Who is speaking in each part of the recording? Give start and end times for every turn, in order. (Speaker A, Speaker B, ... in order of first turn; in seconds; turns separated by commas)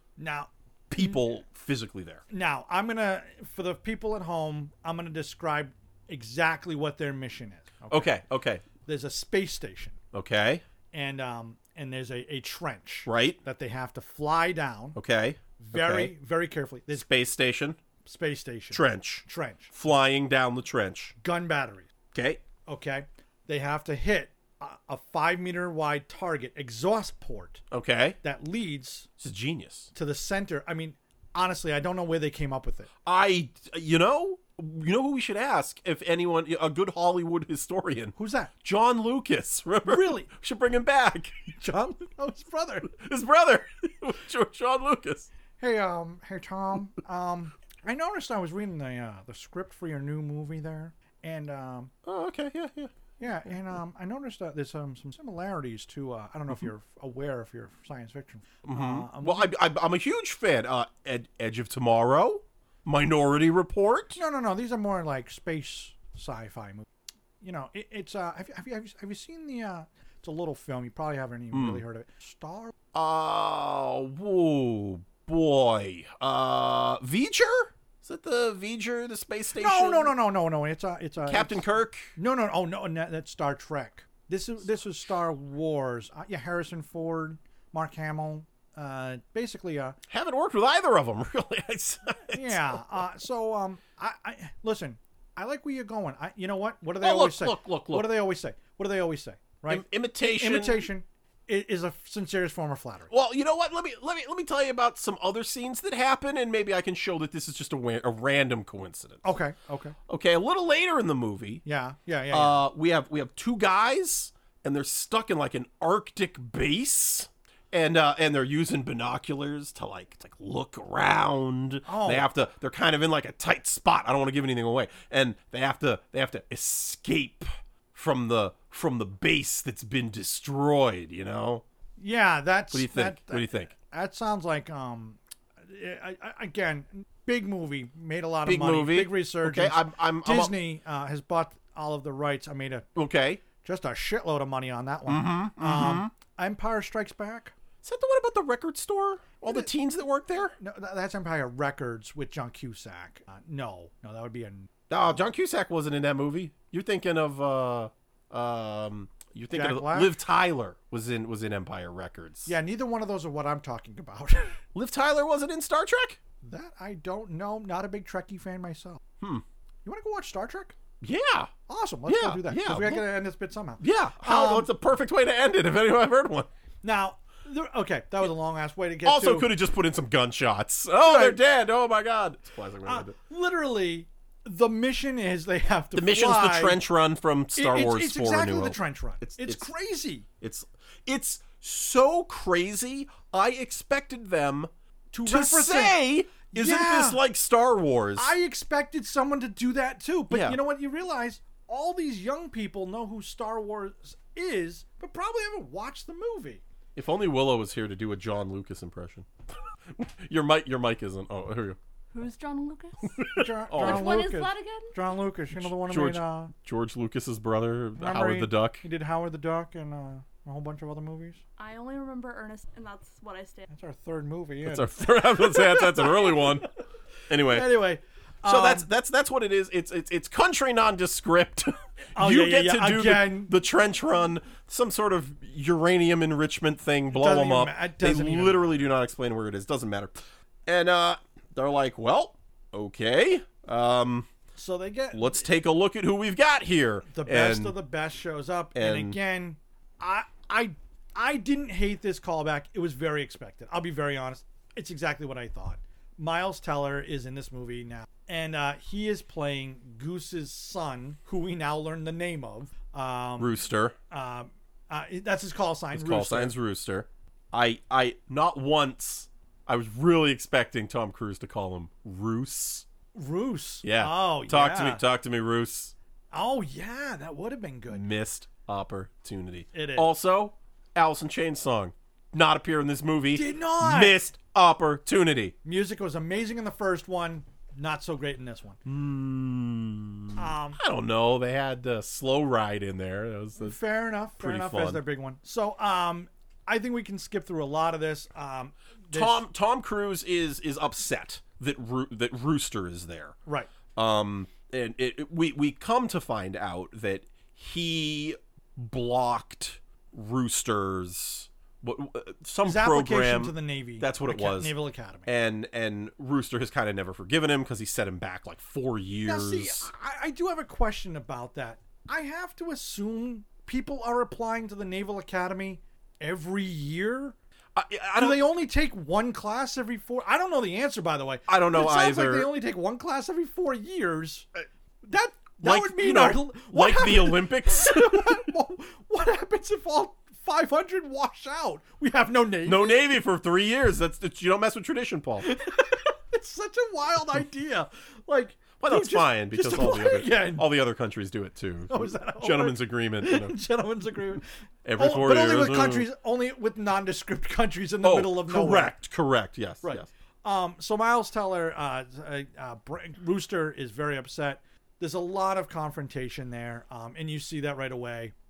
Speaker A: 0.2-1.4, Speaker B: 0.9-2.2, Speaker A: 2.3-8.2, Speaker B: 7.9-8.6, Speaker A: 8.8-10.0, Speaker B: 10.1-10.6, Speaker A: 10.9-15.0, Speaker B: 13.1-13.4, Speaker B: 14.9-16.1, Speaker A: 15.6-17.1, Speaker B: 16.9-17.8, Speaker A: 18.1-19.7, Speaker B: 18.7-21.1, Speaker A: 21.2-21.9, Speaker B: 22.1-22.4, Speaker A: 22.7-27.6, Speaker B: 27.7-28.2, Speaker A: 28.2-29.1, Speaker B: 29.2-29.9, Speaker A: 29.9-32.9, Speaker B: 33.0-41.4, Speaker A: 38.2-38.5, Speaker A: 39.9-40.3, Speaker A: 41.6-42.9, Speaker B: 42.9-45.3, Speaker A: 45.6-51.9, Speaker B: 52.0-53.0, Speaker A: 53.2-59.5, Speaker B: 58.6-64.2, Speaker A: 64.2-66.9, Speaker A: 67.4-72.7, Speaker B: 71.5-71.8, Speaker B: 72.9-80.1, Speaker A: 79.6-81.7, Speaker B: 81.3-82.2, Speaker A: 82.2-90.0, Speaker B: 90.1-92.8, Speaker A: 92.3-103.1, Speaker B: 97.0-98.2, Speaker B: 99.7-100.9, Speaker B: 103.1-109.2, Speaker A: 109.2-110.0, Speaker B: 110.1-111.6, Speaker A: 111.7-112.6, Speaker B: 112.3-131.6, Speaker A: 121.9-122.3, Speaker A: 132.0-142.9, Speaker B: 132.7-133.7, Speaker B: 138.4-140.6, Speaker B: 143.0-143.4, Speaker A: 143.6-147.5, Speaker B: 145.1-146.1, Speaker B: 147.8-150.6, Speaker A: 149.4-149.7, Speaker A: 150.6-154.7, Speaker B: 154.9-162.5, Speaker A: 159.5-160.2, Speaker A: 162.5-164.6, Speaker B: 164.7-166.2, Speaker A: 166.4-169.0, Speaker A: 169.8-170.8, Speaker B: 171.0-171.5, Speaker A: 171.7-174.7, Speaker B: 172.1-173.1, Speaker B: 173.8-176.5, Speaker A: 176.8-179.5, Speaker B: 179.1-183.2, Speaker A: 181.0-181.4, Speaker A: 182.8-186.8, Speaker B: 185.9-189.7, Speaker A: 187.6-190.3, Speaker B: 190.4-194.7, Speaker A: 195.1-197.2, Speaker B: 195.3-198.3, Speaker A: 198.2-206.6, Speaker B: 200.3-200.6, Speaker B: 207.0-209.3, Speaker B: 209.9-211.8, Speaker C: 212.1-213.2, Speaker B: 213.1-214.3, Speaker A: 213.3-216.5, Speaker C: 213.7-214.9, Speaker B: 215.6-218.8, Speaker A: 218.0-221.4, Speaker C: 221.6-223.7, Speaker A: 223.7-226.6, Speaker B: 224.7-226.7, Speaker B: 227.3-227.8, Speaker A: 227.4-228.9, Speaker B: 228.4-244.3, Speaker A: 232.2-233.5, Speaker A: 237.1-238.7, Speaker A: 244.6-245.4, Speaker B: 245.1-247.8, Speaker A: 247.1-263.5, Speaker B: 248.8-249.2, Speaker B: 263.4-264.0, Speaker A: 264.1-266.5, Speaker B: 265.9-272.9, Speaker A: 273.1-275.0, Speaker B: 273.8-275.9, Speaker A: 276.3-278.1, Speaker B: 277.9-285.6, Speaker A: 279.7-280.1, Speaker A: 283.3-284.2, Speaker A: 285.6-288.8, Speaker B: 288.9-293.8, Speaker A: 290.4-290.8, Speaker A: 293.6-299.4, Speaker B: 294.4-295.0, Speaker B: 299.1-303.4, Speaker B: 303.9-314.8, Speaker A: 312.6-315.3, Speaker B: 315.3-319.9, Speaker A: 319.2-327.4, Speaker B: 327.8-328.4, Speaker A: 328.2-334.5, Speaker B: 331.5-332.5, Speaker A: 335.0-343.0, Speaker B: 335.6-338.5, Speaker B: 342.6-345.5, Speaker A: 345.4-350.7, Speaker B: 348.8-353.6, Speaker A: 351.9-354.4, Speaker B: 354.9-356.1, Speaker A: 355.0-359.0, Speaker B: 358.0-360.1, Speaker A: 359.8-368.3